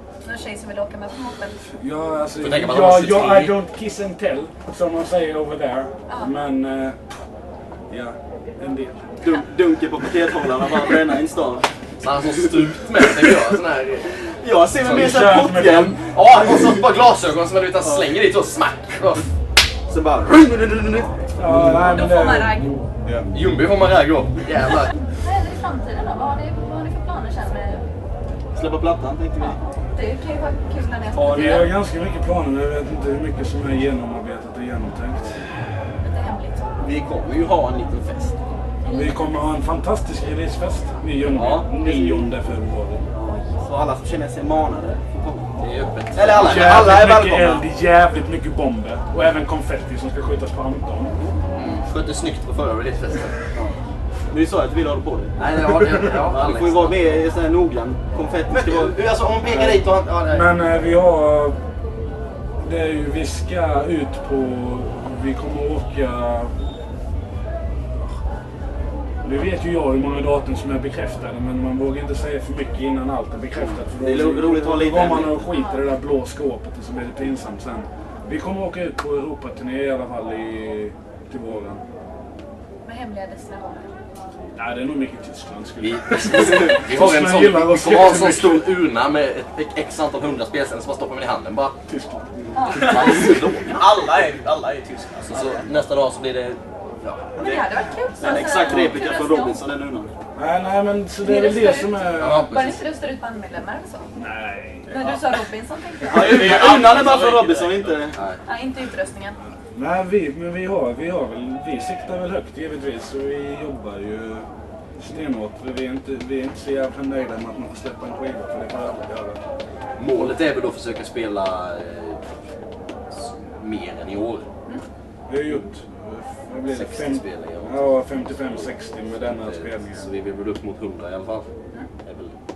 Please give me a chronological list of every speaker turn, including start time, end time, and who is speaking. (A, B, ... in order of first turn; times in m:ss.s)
0:00.2-0:01.6 A
0:01.8-0:07.0 B
0:02.4-0:03.6 C
0:06.1-0:06.3 A
0:07.9-0:09.2 B
0:09.2-0:11.7 D
0:12.0-0:14.2 C
0:14.2-0:16.8 D
0:14.8-0:16.0 B
0:14.8-0:15.1 C
0:16.1-0:19.3 C
0:17.8-0:18.1 D
0:19.9-0:22.0 D
0:21.4-0:22.9 B
0:21.9-0:22.8 A
0:23.3-0:24.9 C
0:25.1-0:27.8 A
0:28.5-0:29.6 D
0:29.9-0:31.7 A
0:31.2-0:35.4 B
0:36.0-0:36.7 A
0:36.8-0:38.3 D
0:38.8-0:39.4 A
0:38.9-0:43.0 B
0:41.3-0:42.3 D
0:43.1-0:43.5 A
0:43.6-0:45.5 D
0:45.6-0:46.9 C
0:46.1-0:47.6 D
0:46.3-0:51.1 B
0:51.5-0:53.4 C
0:54.3-0:55.4 D
0:55.4-0:57.2 C
0:56.0-0:59.9 D
0:58.5-1:00.5 C
1:00.3-1:01.6 B
1:02.6-1:06.5 B
1:09.2-1:21.8 B
1:13.5-1:15.4 D
1:15.5-1:15.9 A
1:22.8-1:23.9 A
1:24.5-1:28.8 B
1:25.8-1:31.8 C
1:31.9-1:32.4 B
1:32.4-1:32.7 D
1:32.5-1:33.0 A
1:32.7-1:33.1 E
1:32.8-1:33.8 C
1:33.7-1:35.7 E
1:35.3-1:37.3 C
1:37.4-1:39.6 A
1:37.4-1:40.1 D
1:40.4-1:42.6 B
1:41.2-1:44.1 A
1:42.2-1:42.8 C
1:44.1-1:44.9 B
1:44.9-1:46.5 A
1:44.9-1:45.2 E
1:46.1-1:48.2 D
1:46.1-1:48.1 E
1:48.4-1:49.4 A
1:49.7-1:54.5 B
1:55.0-1:59.4 B
2:00.0-2:02.4 C
2:03.1-2:04.4 C
2:05.3-2:10.1 B
2:06.7-2:11.5 C
2:12.0-2:12.4 C